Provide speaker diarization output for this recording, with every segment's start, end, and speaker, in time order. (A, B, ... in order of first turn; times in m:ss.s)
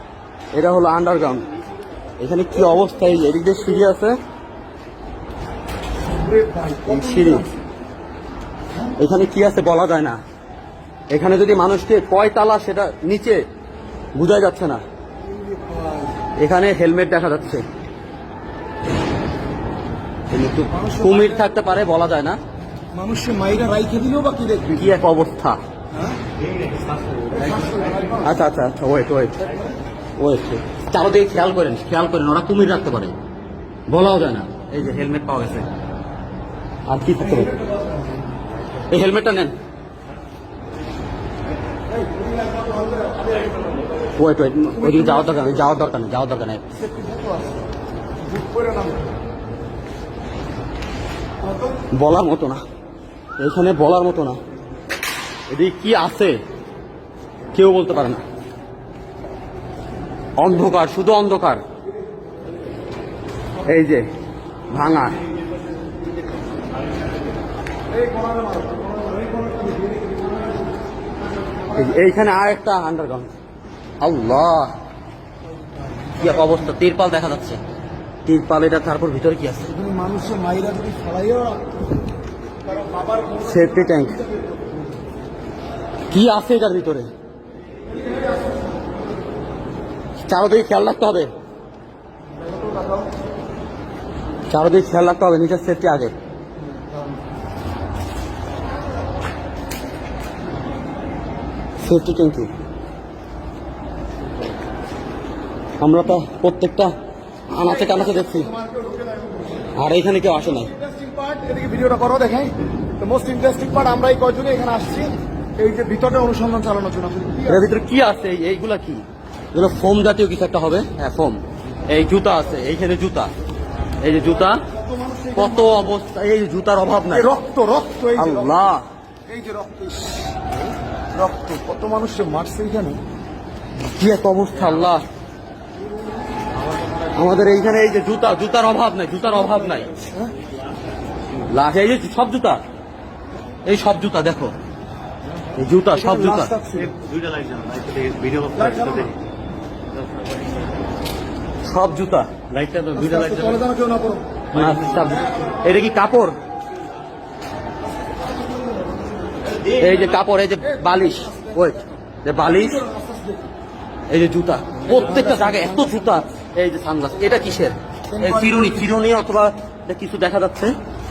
0:00.5-0:01.5 A
0:02.2-0:04.2 A
0:06.0-0:07.5 B
0:06.9-0:07.5 A
0:09.0-0:10.2 A
0:11.1-0:13.4 A
0:14.2-0:14.8 A
0:15.3-0:16.2 B
0:16.4-0:17.6 A
0:20.3-0:22.4 A
0:20.7-0:21.4 B
0:22.9-0:25.0 B
0:24.8-0:25.6 A
0:27.3-0:28.3 B
0:28.2-0:29.5 A
0:30.2-0:33.2 A
0:33.9-0:35.7 A
0:36.9-0:37.5 A
0:38.9-0:39.6 A
0:41.9-0:43.6 B
0:44.2-0:46.6 A
0:44.8-0:45.7 B
0:46.8-0:47.6 B
0:48.2-0:49.1 B
0:51.4-0:51.8 B
0:51.9-0:52.6 A
0:53.4-0:54.4 A
0:55.5-0:56.4 A
0:57.5-0:58.2 A
1:00.4-1:01.6 A
1:03.6-1:04.0 A
1:04.7-1:05.2 A
1:07.9-1:10.3 B
1:11.7-1:13.3 A
1:14.0-1:14.7 A
1:15.8-1:16.5 B
1:16.2-1:17.6 A
1:18.2-1:19.7 A
1:19.7-1:21.8 B
1:22.6-1:24.6 B
1:23.4-1:24.2 A
1:26.1-1:27.1 A
1:28.0-1:28.3 B
1:30.2-1:31.3 A
1:34.5-1:36.1 A
1:41.8-1:42.5 A
1:45.8-1:46.9 A
1:47.5-1:48.5 A
1:47.6-1:49.7 B
1:49.8-1:50.7 A
1:50.6-1:57.6 B
1:57.5-2:03.3 A
2:04.0-2:04.6 A
2:04.6-2:05.9 B
2:05.4-2:07.3 A
2:07.1-2:08.6 B
2:08.2-2:08.8 A
2:09.3-2:10.4 B
2:11.1-2:13.0 B
2:14.0-2:15.0 A
2:17.1-2:19.9 A
2:21.5-2:22.6 A
2:23.7-2:24.5 A
2:25.6-2:26.5 A
2:25.9-2:26.9 B
2:26.9-2:29.1 C
2:28.6-2:29.1 B
2:31.6-2:32.5 A
2:32.5-2:33.6 C
2:33.0-2:34.4 B
2:34.5-2:36.4 A
2:34.6-2:35.2 C
2:38.0-2:39.6 B
2:39.7-2:42.8 A
2:40.6-2:41.8 B
2:42.4-2:43.5 B
2:44.1-2:50.8 A
2:44.8-2:46.1 B
2:48.1-2:48.9 B